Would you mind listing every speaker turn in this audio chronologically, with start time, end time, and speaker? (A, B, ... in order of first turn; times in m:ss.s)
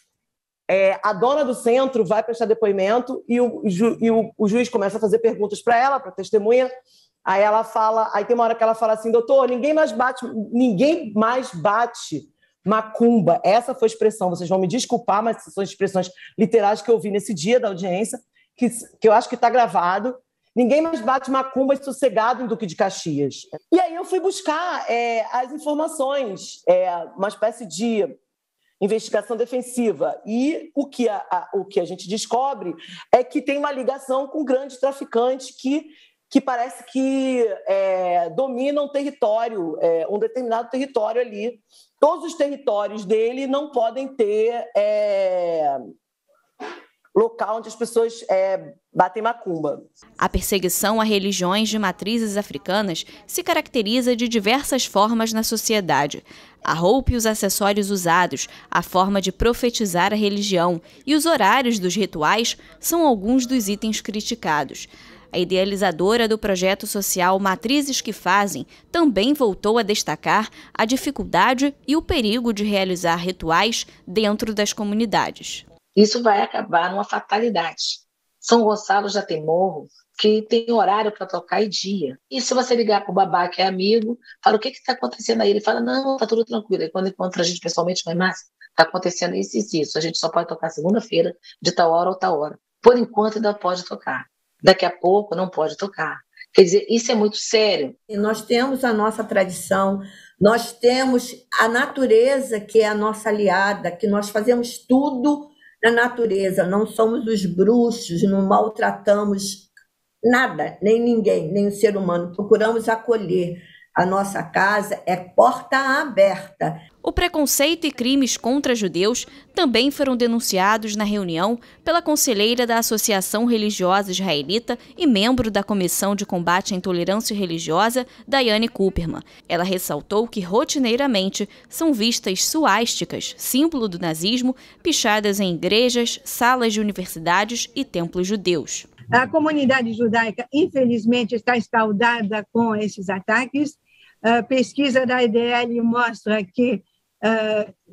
0:00.7-0:06.7 A
0:07.3-0:28.1 A
0:28.8-0:45.8 A
0:47.2-0:49.9 A
0:50.2-1:15.6 B
1:16.0-1:38.0 C
1:38.1-1:49.7 D
1:50.2-1:56.8 D
1:57.0-2:18.9 B
2:19.1-2:27.7 E